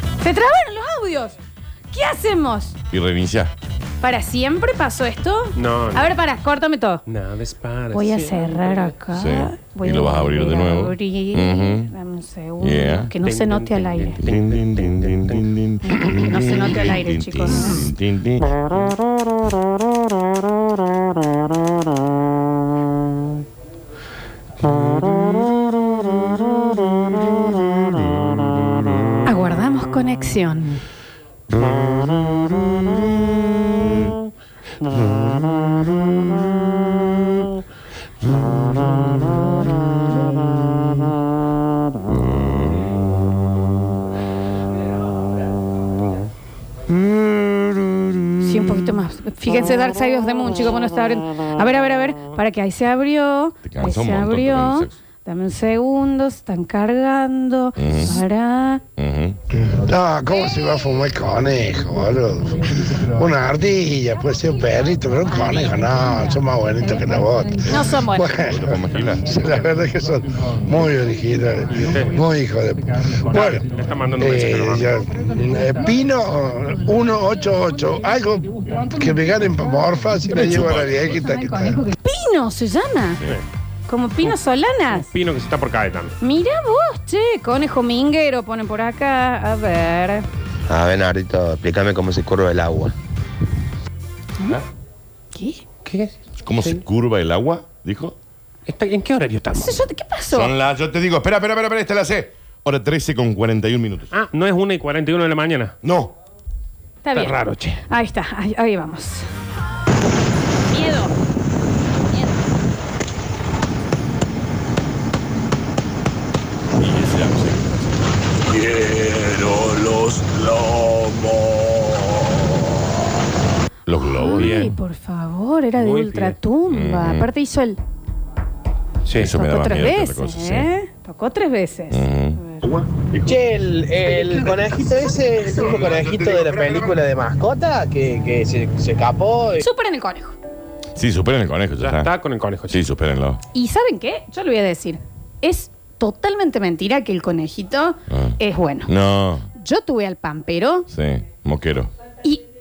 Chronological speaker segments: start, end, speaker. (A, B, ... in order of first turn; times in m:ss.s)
0:00.2-0:01.4 A
0:01.9-0:02.8 A
0:02.9-0:03.5 B
0:04.0-0:07.0 A
0:05.6-0:06.2 C
0:07.1-0:09.0 C
0:07.9-0:14.2 A
0:09.1-0:11.9 B
0:12.6-0:13.1 B
0:13.2-0:15.4 C
0:14.2-0:18.5 B
0:16.2-0:17.9 A
0:29.2-0:30.8 A
0:31.6-0:33.0 B
0:42.2-0:42.9 B
0:46.9-0:48.9 B
0:48.4-0:58.8 A
0:53.6-0:55.0 B
0:57.8-0:58.2 B
0:59.0-0:59.4 B
0:59.6-1:13.6 D
1:00.3-1:00.9 A
1:07.7-1:08.4 A
1:08.5-1:09.3 B
1:11.9-1:12.2 C
1:13.3-1:14.9 C
1:14.2-1:21.8 D
1:20.4-1:23.2 A
1:20.4-1:21.2 B
1:23.9-1:25.1 A
1:24.9-1:26.2 C
1:26.2-1:30.2 A
1:30.7-1:32.9 E
1:35.3-1:35.6 A
1:35.8-1:36.8 C
1:36.4-1:38.2 B
1:38.7-1:39.8 C
1:39.5-1:40.5 A
1:40.3-1:44.1 B
1:44.1-1:45.8 C
1:45.8-1:46.1 B
1:47.0-1:47.4 A
1:47.2-1:47.8 C
1:47.9-1:49.3 A
1:50.7-1:51.1 A
1:56.8-1:58.0 B
2:03.9-2:04.8 B
2:04.0-2:07.8 A
2:04.4-2:04.7 C
2:05.8-2:06.4 C
2:06.7-2:07.3 B
2:09.1-2:09.3 C
2:09.1-2:10.7 B
2:09.4-2:12.6 A
2:11.9-2:12.4 B
2:13.3-2:17.3 F
2:15.6-2:16.3 E
2:19.6-2:20.4 A
2:21.0-2:22.1 B
2:21.8-2:22.8 C
2:22.7-2:23.4 B
2:23.5-2:28.9 A
2:28.1-2:29.4 B
2:29.6-2:30.9 A
2:30.9-2:31.9 B